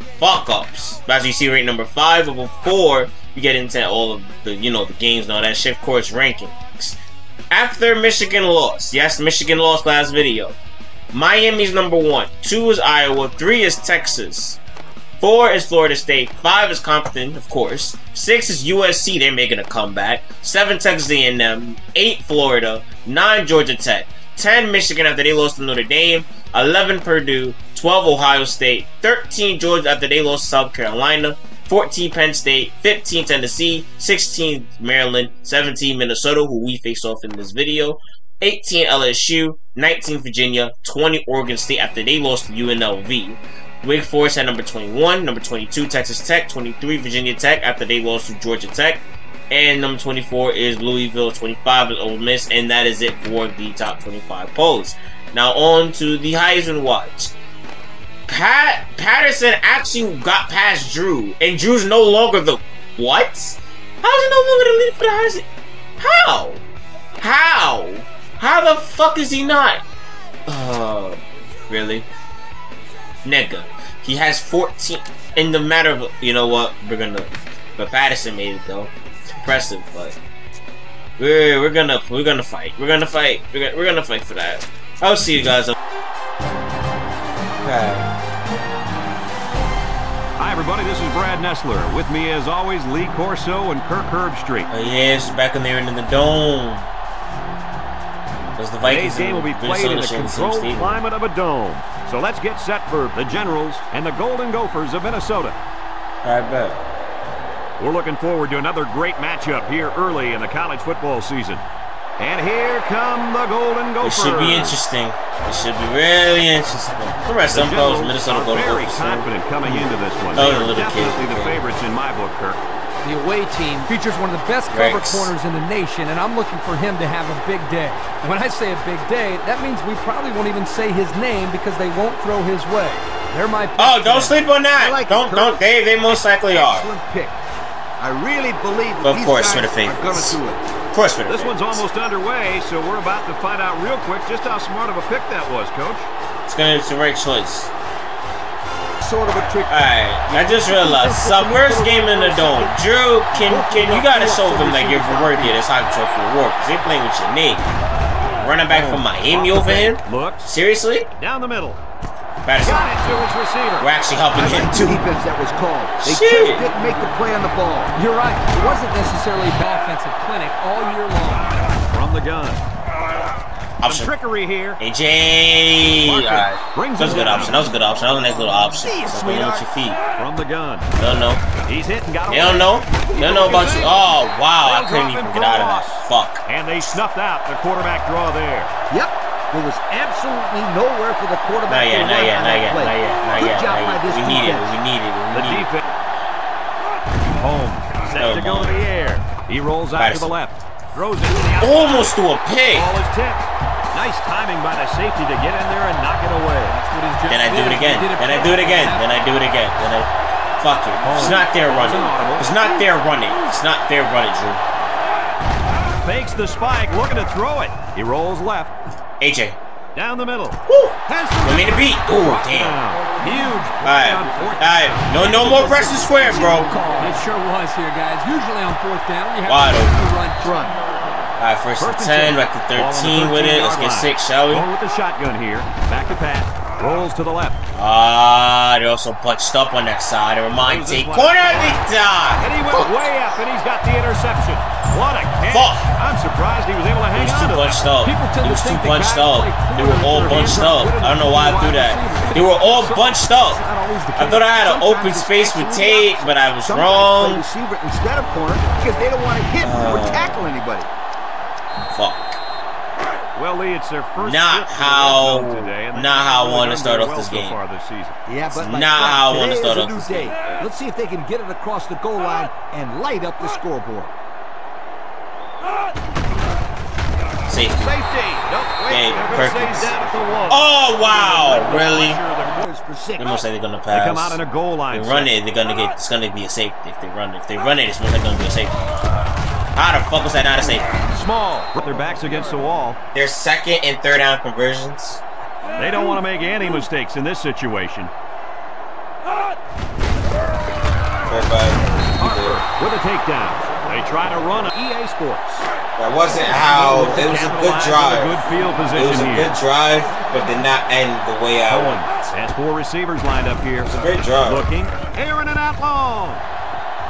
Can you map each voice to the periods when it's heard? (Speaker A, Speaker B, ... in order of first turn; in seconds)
Speaker A: 0.2-7.0, 7.5-10.5, 11.1-14.6, 15.2-57.3, 58.3-65.5, 66.0-66.6, 67.2-69.8, 70.5-72.1, 73.2-80.2, 81.2-85.8, 87.6-88.1, 94.7-96.9, 98.6-101.0, 106.2-106.8, 114.0-121.6, 124.7-125.3, 133.8-136.9, 139.0-140.4, 140.9-141.8, 146.5-147.7, 149.7-157.7, 158.3-161.1, 162.4-162.9, 163.8-165.0, 166.0-166.7, 173.8-174.1, 174.8-180.0, 181.0-181.4, 182.3-187.0, 191.7-195.9, 198.2-198.8, 200.0-200.3, 201.6-202.9, 207.3-214.6, 219.2-219.6, 220.7-222.8, 223.8-226.7, 229.4-230.0, 231.4-234.7, 237.8-243.0, 245.5-245.9, 247.1-253.6, 254.2-257.4, 259.6-260.4, 261.9-262.4, 264.2-267.6, 268.5-270.7, 277.5-278.0, 278.9-282.2, 283.2-289.0, 289.8-290.9, 293.1-295.2, 301.3-302.6, 306.0-308.4, 308.9-312.2, 313.8-314.7
Speaker B: 90.4-94.7, 98.8-105.6, 107.8-111.6, 112.2-114.8, 117.5-122.6, 141.3-146.1, 158.7-160.5, 161.2-161.8, 162.6-163.9, 171.9-172.6, 173.8-174.8, 175.9-177.7, 180.2-180.9, 181.6-188.7, 195.3-195.8, 197.4-202.2, 202.7-206.8, 211.0-213.3, 216.0-218.7, 219.9-226.0, 231.8-237.6, 240.6-241.8, 242.4-247.9, 263.4-268.2, 277.7-282.7, 283.9-285.3, 291.1-293.0, 295.8-298.1, 302.2-305.7, 306.6-309.5, 311.7-316.4
Speaker C: 123.0-134.4, 167.9-171.6, 206.7-209.1, 223.2-223.6, 226.9-230.8, 248.0-254.4
Speaker D: 134.8-135.6, 136.5-137.4, 138.0-140.6, 149.0-152.8, 153.3-155.6, 164.3-167.9, 178.8-179.7, 188.9-194.7, 225.3-227.2, 254.2-260.9, 268.3-274.1, 282.4-283.4